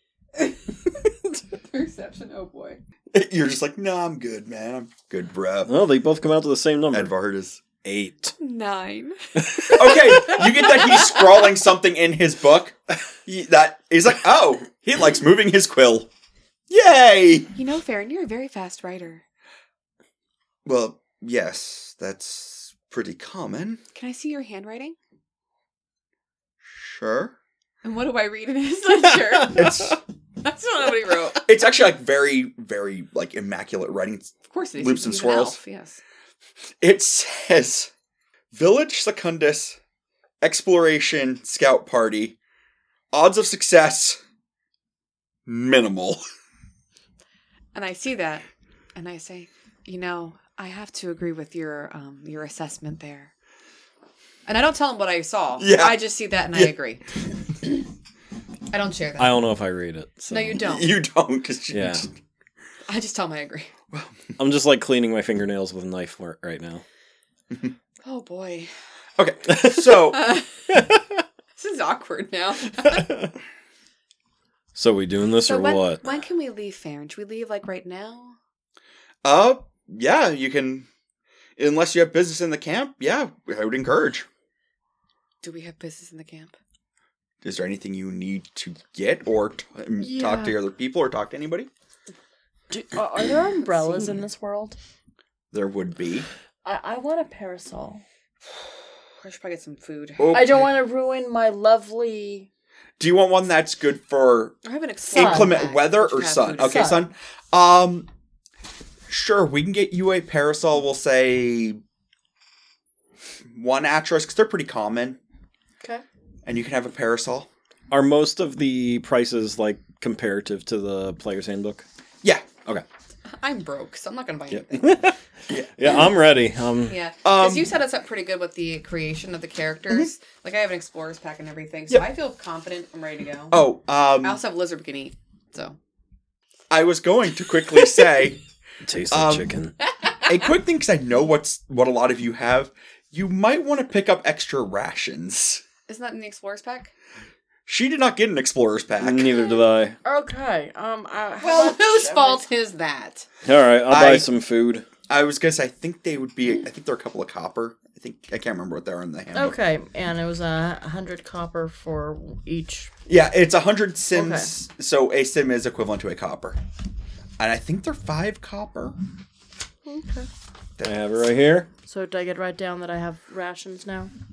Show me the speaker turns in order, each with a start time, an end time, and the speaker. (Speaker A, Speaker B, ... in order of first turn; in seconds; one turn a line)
Speaker A: 0.3-2.8
Speaker B: 3.1-5.7
Speaker C: 5.7-7.1
Speaker B: 6.9-7.6
Speaker C: 7.8-8.3
Speaker A: 8.4-11.2
Speaker C: 9.4-10.1
Speaker B: 9.7-16.1
Speaker B: 16.7-17.5
Speaker A: 17.5-19.2
Speaker B: 20.6-23.8
Speaker A: 23.9-24.9
Speaker B: 26.6-27.3
Speaker A: 27.8-31.5
Speaker B: 29.5-30.0
Speaker B: 31.4-35.6
Speaker A: 34.5-36.0
Speaker B: 36.8-37.9
Speaker B: 38.5-39.8
Speaker B: 40.4-42.4
Speaker B: 43.1-44.2
Speaker B: 45.5-46.2
Speaker A: 47.7-53.3
Speaker A: 54.5-57.0
Speaker B: 55.6-56.0
Speaker A: 58.7-59.5
Speaker C: 59.2-60.6
Speaker A: 60.3-60.9
Speaker B: 60.6-62.1
Speaker C: 61.7-62.1
Speaker A: 62.9-63.7
Speaker B: 63.9-64.2
Speaker C: 64.4-66.8
Speaker A: 68.0-68.7
Speaker B: 69.2-70.3
Speaker C: 69.5-70.0
Speaker A: 70.2-70.4
Speaker C: 70.7-71.0
Speaker A: 71.5-73.2
Speaker C: 73.0-73.2
Speaker C: 74.7-76.0
Speaker A: 75.4-78.4
Speaker B: 79.2-80.9
Speaker B: 81.6-84.3
Speaker A: 85.4-86.5
Speaker B: 87.4-91.7
Speaker D: 90.0-90.6
Speaker D: 92.7-94.8
Speaker B: 95.5-96.3
Speaker D: 96.6-98.0
Speaker A: 99.2-100.3
Speaker B: 100.2-100.7
Speaker D: 100.3-102.5
Speaker B: 103.0-104.6
Speaker A: 104.6-107.0
Speaker D: 105.1-105.6
Speaker B: 105.1-108.1
Speaker D: 106.6-107.0
Speaker B: 109.1-111.8
Speaker B: 113.5-115.2
Speaker B: 116.5-117.5
Speaker C: 117.9-121.8
Speaker B: 122.2-122.6
Speaker A: 123.4-125.1
Speaker C: 124.5-125.2
Speaker C: 125.7-127.0
Speaker A: 126.9-133.7
Speaker B: 127.2-127.7
Speaker B: 133.5-134.4
Speaker A: 134.2-135.8
Speaker B: 136.7-138.4
Speaker C: 138.8-139.8
Speaker B: 139.1-139.5
Speaker B: 140.2-145.6
Speaker A: 145.9-146.9
Speaker B: 147.7-149.4
Speaker C: 149.0-150.0
Speaker D: 150.0-152.4
Speaker A: 151.4-153.3
Speaker C: 153.4-154.8
Speaker B: 153.9-154.3
Speaker B: 155.1-159.6
Speaker D: 159.3-162.9
Speaker B: 163.1-166.6
Speaker D: 164.1-164.5
Speaker B: 167.4-168.9
Speaker D: 169.8-170.3
Speaker B: 170.8-171.1
Speaker C: 170.8-171.7
Speaker D: 171.8-174.1